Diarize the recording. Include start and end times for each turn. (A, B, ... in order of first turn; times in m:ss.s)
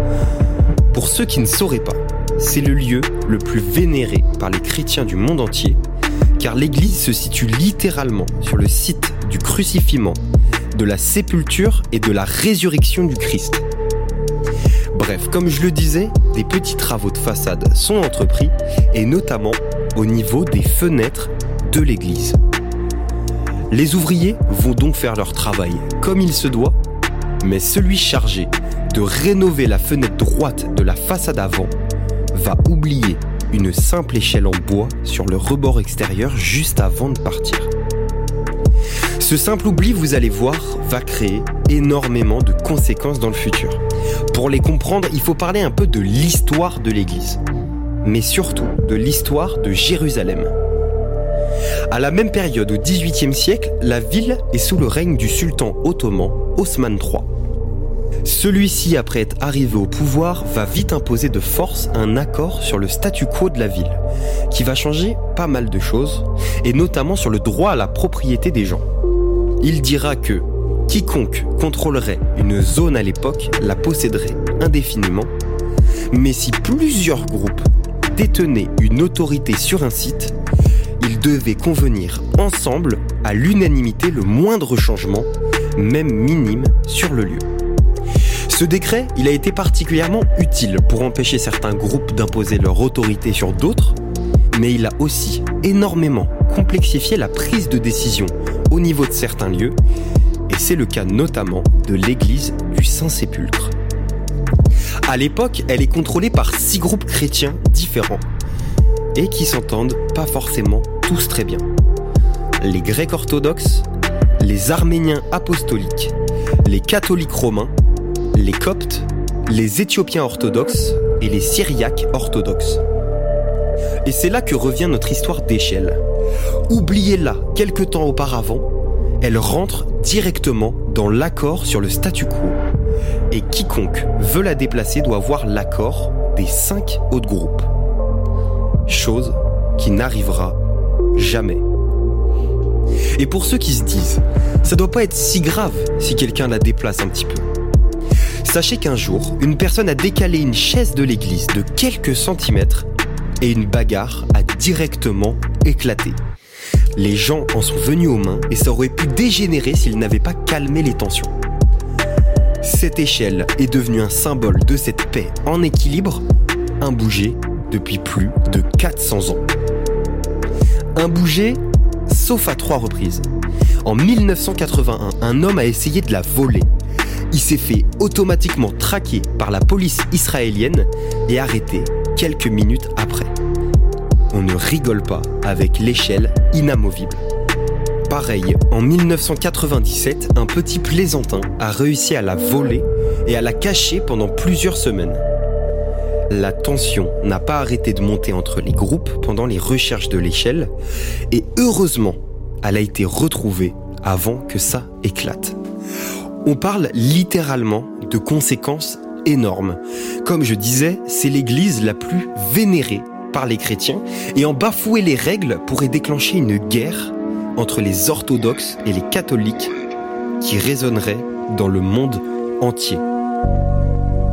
0:00.9-0:05.8 A
0:06.4-0:10.2 A
0:10.7-0:13.6 A
0:14.9-0:22.4 A
0:23.7-0:26.8 A
0:27.4-0:31.8 A
0:32.3-0:37.7 A
0:39.2-0:47.4 A
0:48.0-0:50.5 A
0:51.9-0:57.3 A
0:58.2-1:08.8 A
1:09.6-1:15.3 A
1:16.1-1:20.4 A
1:21.0-1:27.5 A
1:28.4-1:34.0 A
1:34.5-1:39.8 A
1:40.5-1:43.8 A
1:45.0-1:48.2 A
1:49.1-1:51.7 A
1:52.6-1:53.9 A
1:54.4-1:57.7 A
1:58.3-2:02.8 A
2:04.0-2:06.0 A
2:06.7-2:08.7 A
2:09.2-2:12.6 A
2:13.3-2:17.7 A
2:18.8-2:20.6 A
2:21.1-2:21.6 A
2:23.1-2:27.5 A
2:28.4-2:32.9 A
2:33.4-2:36.2 A
2:36.9-2:41.3 A
2:42.6-2:46.2 A
2:46.8-2:49.5 A
2:50.9-2:53.3 A
2:53.8-2:56.7 A
2:57.3-3:03.3 A
3:04.3-3:07.2 A
3:08.1-3:15.2 A
3:16.3-3:20.7 A
3:21.3-3:25.6 A
3:26.4-3:39.7 A
3:40.4-3:43.0 A